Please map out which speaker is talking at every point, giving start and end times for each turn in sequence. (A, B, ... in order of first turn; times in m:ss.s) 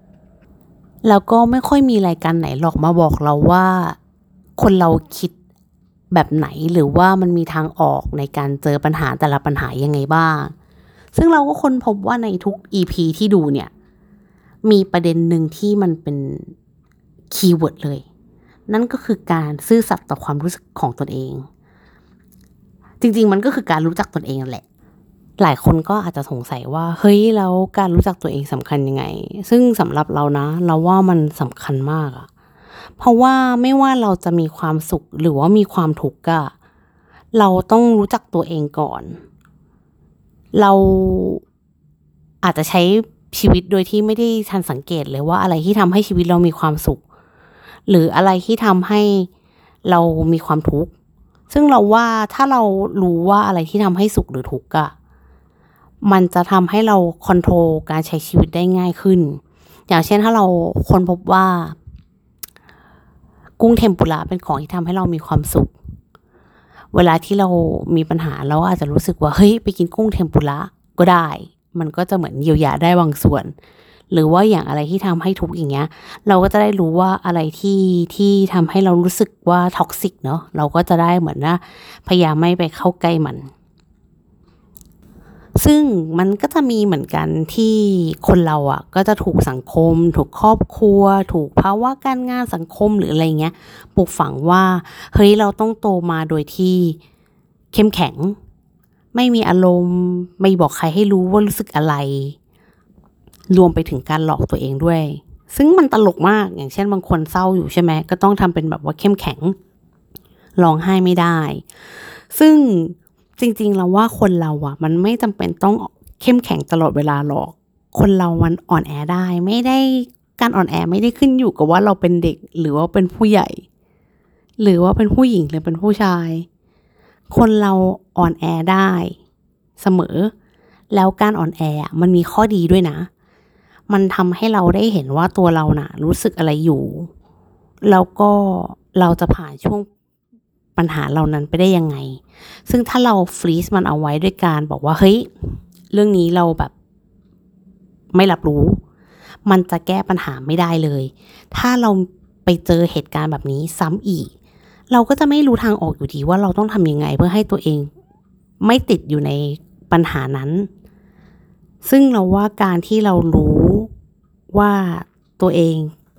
0:01.0-0:04.0 A
0:04.6-0:05.3 A
0:06.1-0:10.5 A
0:11.1-0:13.7 A
0:14.6-0:16.5 A
0:17.3-0:18.0 A
0:18.7-0:21.5 A
0:23.0-0:24.6 A
0:25.4-0:32.3 A
0:33.0-0:36.5 A
0:37.3-0:39.2 A
0:40.6-0:41.4 A
0:42.4-0:47.0 A
0:47.9-0:49.3 A
0:49.8-0:50.9 A
0:51.5-0:54.9 A
0:56.0-1:01.8 A
1:03.6-1:05.7 A
1:06.9-1:13.5 A
1:14.1-1:23.5 A
1:25.6-1:37.0 A
1:37.7-1:38.4 A
1:39.1-1:42.4 A
1:43.5-1:49.6 A
1:50.6-1:51.6 A
1:52.3-2:03.6 A
2:04.6-2:06.5 A
2:07.3-2:09.2 A
2:09.8-2:10.3 A
2:10.9-2:13.1 A
2:13.9-2:17.1 A
2:17.8-2:19.9 A
2:20.8-2:26.7 A
2:28.1-2:28.8 A
2:29.4-2:34.3 A
2:34.9-2:37.9 A
2:38.6-2:40.7 A
2:41.8-2:43.9 A
2:44.5-2:45.9 A